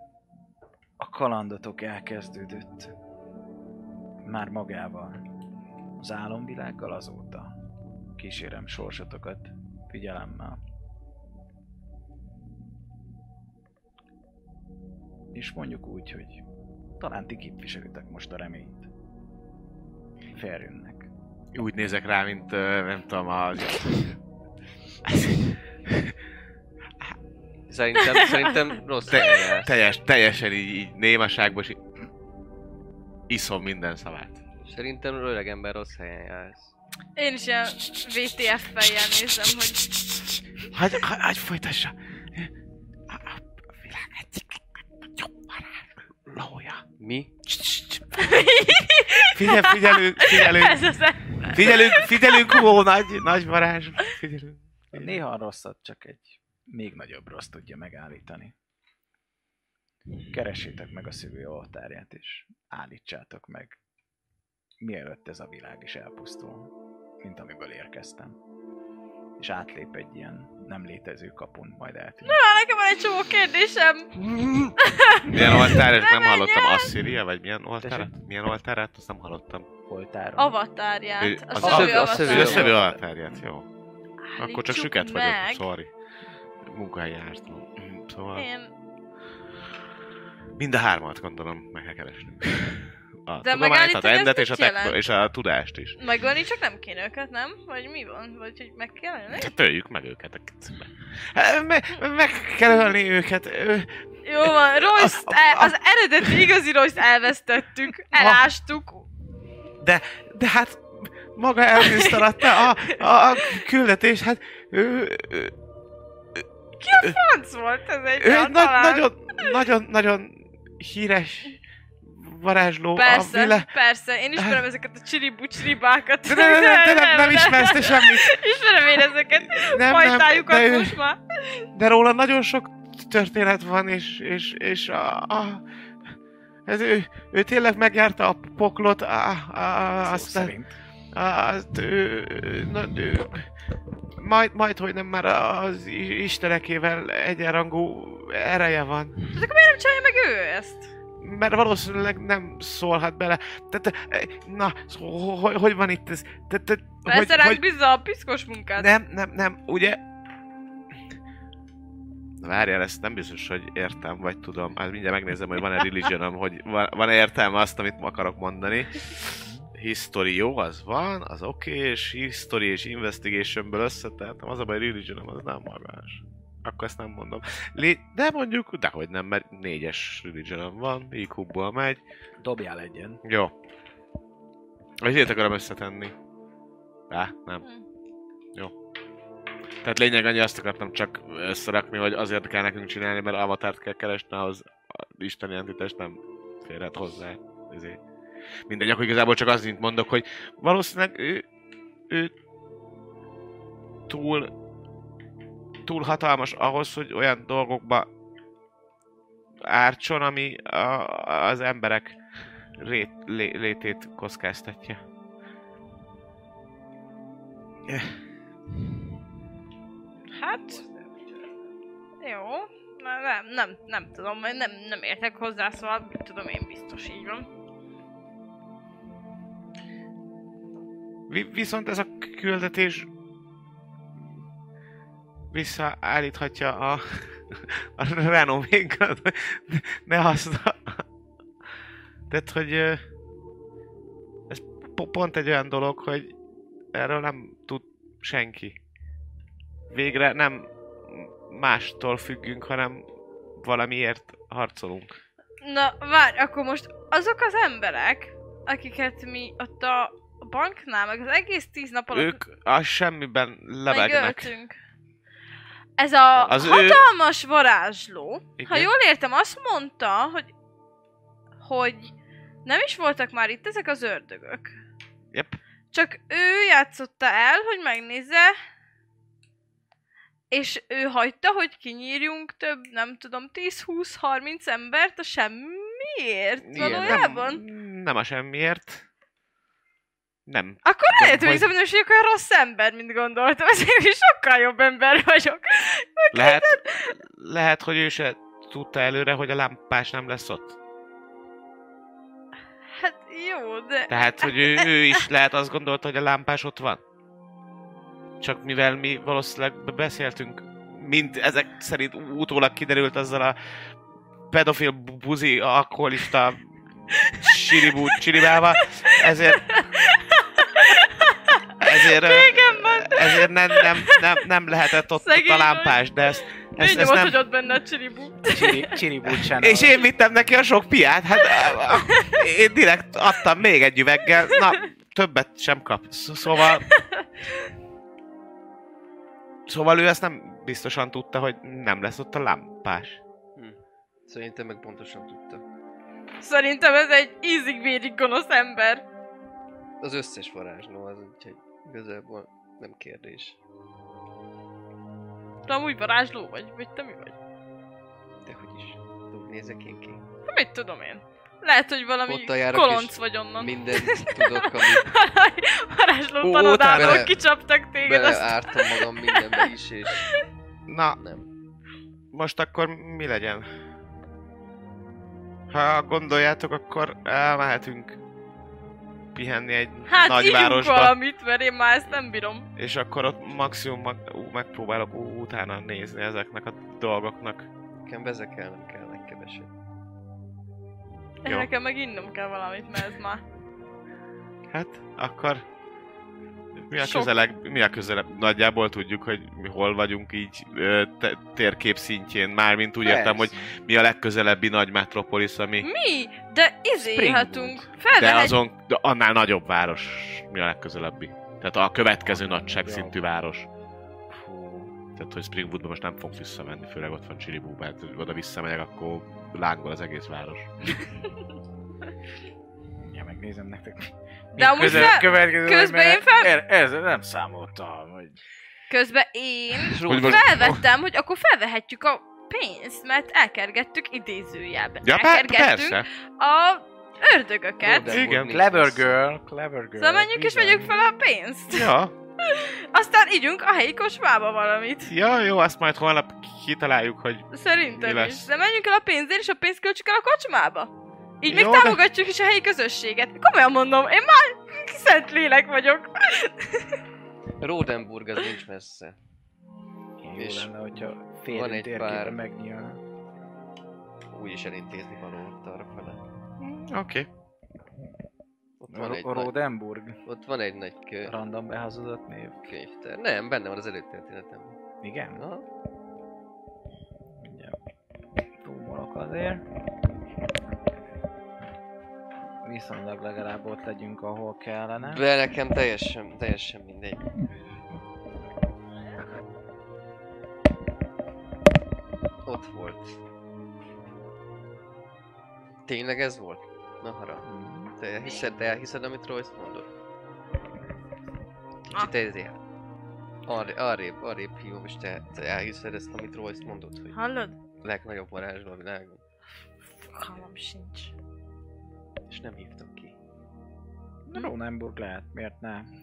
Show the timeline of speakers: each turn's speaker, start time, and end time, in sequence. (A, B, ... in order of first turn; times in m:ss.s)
0:01.0-0:03.0 A
0:04.2-0:05.2 A
0:06.0-0:07.6 A
0:08.2-0:10.6 A
0:15.3-0:16.4 A
0:17.0-0:18.9 A
0:20.3-0:21.1 A
0:21.5-0:24.2 B
0:25.0-0:26.1 B
0:27.7-0:29.7 C
0:29.1-0:31.8 B
0:33.3-0:34.4 B
0:34.7-0:36.7 C
0:37.2-0:39.9 D
0:40.6-0:42.5 B
0:43.1-0:46.8 B
0:47.0-0:47.3 C
0:47.5-0:48.4 B
0:48.1-0:52.7 D
0:49.1-0:55.2 B
0:54.9-0:58.5 A
1:00.3-1:03.8 A
1:04.8-1:08.4 A
1:09.4-1:12.4 A
1:12.2-1:14.1 D
1:14.8-1:16.9 D
1:15.2-1:19.7 B
1:17.8-1:18.1 A
1:19.9-1:20.6 A
1:20.4-1:22.7 D
1:21.2-1:23.7 B
1:21.6-1:22.8 C
1:21.6-1:23.5 A
1:24.3-1:25.7 D
1:24.4-1:25.9 B
1:26.7-1:28.5 B
1:28.3-1:28.7 D
1:30.6-1:36.0 B
1:33.4-1:35.1 D
1:36.0-1:39.5 D
1:39.3-1:43.9 B
1:44.2-1:49.1 D
1:44.4-1:45.7 B
1:48.1-1:48.5 B
1:49.8-1:55.5 B
1:51.8-1:53.6 D
1:56.8-1:59.5 D
1:58.2-2:03.7 B
2:03.0-2:11.6 D
2:04.4-2:04.6 B
2:06.3-2:11.0 B
2:11.7-2:15.6 B
2:16.7-2:20.5 B
2:20.0-2:20.8 A
2:21.1-2:23.5 B
2:24.2-2:29.2 B
2:29.3-2:30.9 D
2:31.2-2:37.6 B
2:37.1-2:38.9 D
2:38.8-2:40.0 B
2:42.4-3:02.0 B
2:49.4-2:49.7 A
3:02.4-3:03.2 A
3:03.2-3:03.5 B
3:05.0-3:06.1 B
3:07.1-3:07.6 B
3:09.8-3:18.0 B
3:18.7-3:21.4 B
3:24.1-3:24.5 B
3:25.8-3:28.1 B
3:29.7-3:32.2 B
3:32.8-3:35.0 B
3:37.9-3:38.1 B
3:40.3-3:40.8 D
3:40.8-3:41.5 C
3:42.2-3:47.5 D
3:51.3-3:53.1 B
3:55.5-4:01.0 B
4:02.3-4:03.0 B
4:04.5-4:06.3 B
4:06.9-4:08.8 B
4:09.9-4:13.1 B
4:13.6-4:15.2 B
4:15.6-4:22.4 D
4:22.1-4:24.5 B
4:23.9-4:24.8 D
4:26.0-4:30.5 D
4:26.4-4:27.1 B
4:28.6-4:28.9 B
4:31.6-4:32.1 D
4:32.6-4:34.8 D
4:35.3-4:35.6 B
4:35.9-4:38.6 D
4:40.5-4:47.6 D
4:46.7-4:49.0 B
4:46.8-4:47.1 C
4:50.5-4:51.7 B
4:50.8-4:57.2 D
4:56.3-5:00.8 B
5:02.9-5:05.2 D
5:04.1-5:07.0 B
5:08.4-5:13.6 B
5:14.5-5:16.6 B
5:17.1-5:24.2 D
5:17.3-5:19.7 B
5:21.8-5:27.4 B
5:25.1-5:29.1 D
5:28.5-5:30.0 A
5:29.5-5:36.9 B
5:31.6-5:32.4 D
5:34.5-5:34.8 D
5:36.5-5:37.6 D
5:39.7-5:43.2 B
5:43.6-5:45.6 C
5:46.4-5:49.0 D
5:50.0-5:53.6 C
5:55.7-5:57.4 D
5:58.4-6:00.2 C
6:00.5-6:09.7 D
6:02.3-6:05.1 C
6:06.4-6:07.3 B
6:06.9-6:07.4 C
6:08.0-6:10.3 C
6:10.9-6:11.2 B
6:11.2-6:11.5 C
6:12.3-6:13.7 B
6:15.7-6:18.2 B
6:19.3-6:21.2 B
6:20.1-6:22.7 D
6:22.8-6:27.7 B
6:28.0-6:29.7 C
6:31.4-6:33.4 D
6:34.7-6:35.6 B
6:36.9-6:45.9 B
6:37.0-6:37.3 D
6:43.0-6:43.7 A
6:45.8-6:48.6 D
6:47.0-6:47.9 A
6:48.1-6:53.7 B
6:52.2-6:53.2 A
6:54.3-6:55.0 A
6:55.2-7:00.7 B
7:03.0-7:08.4 A
7:04.6-7:06.6 D
7:04.8-7:05.2 B
7:08.9-7:18.2 D
7:09.9-7:10.5 C
7:10.1-7:10.8 B
7:15.0-7:16.1 B
7:17.8-7:19.1 C
7:18.1-7:18.6 B
7:18.4-7:20.9 A
7:20.0-7:21.9 D
7:21.7-7:22.1 B
7:22.4-7:25.1 D
7:25.1-7:28.5 B
7:27.5-7:37.0 D
7:31.4-7:32.0 B
7:37.6-7:39.2 C
7:40.2-7:43.0 A
7:40.4-7:40.7 C
7:41.5-7:42.4 C
7:44.3-7:46.2 C
7:46.6-7:47.3 B
7:48.8-7:49.5 C
7:48.9-7:50.2 A
7:50.3-7:51.4 C
7:51.2-7:52.7 A
7:52.7-7:54.8 C
7:55.0-7:55.5 A
7:55.4-7:55.6 C
7:57.3-7:57.8 A
7:58.6-7:59.6 A
8:02.6-8:05.2 A
8:05.0-8:07.3 C
8:12.4-8:13.2 C
8:15.9-8:19.9 C
8:17.5-8:17.9 A
8:21.9-8:22.6 C
8:23.4-8:27.2 C
8:27.1-8:27.6 D
8:27.8-8:29.2 C
8:30.0-8:31.1 D
8:32.3-8:33.2 C
8:34.3-8:35.9 A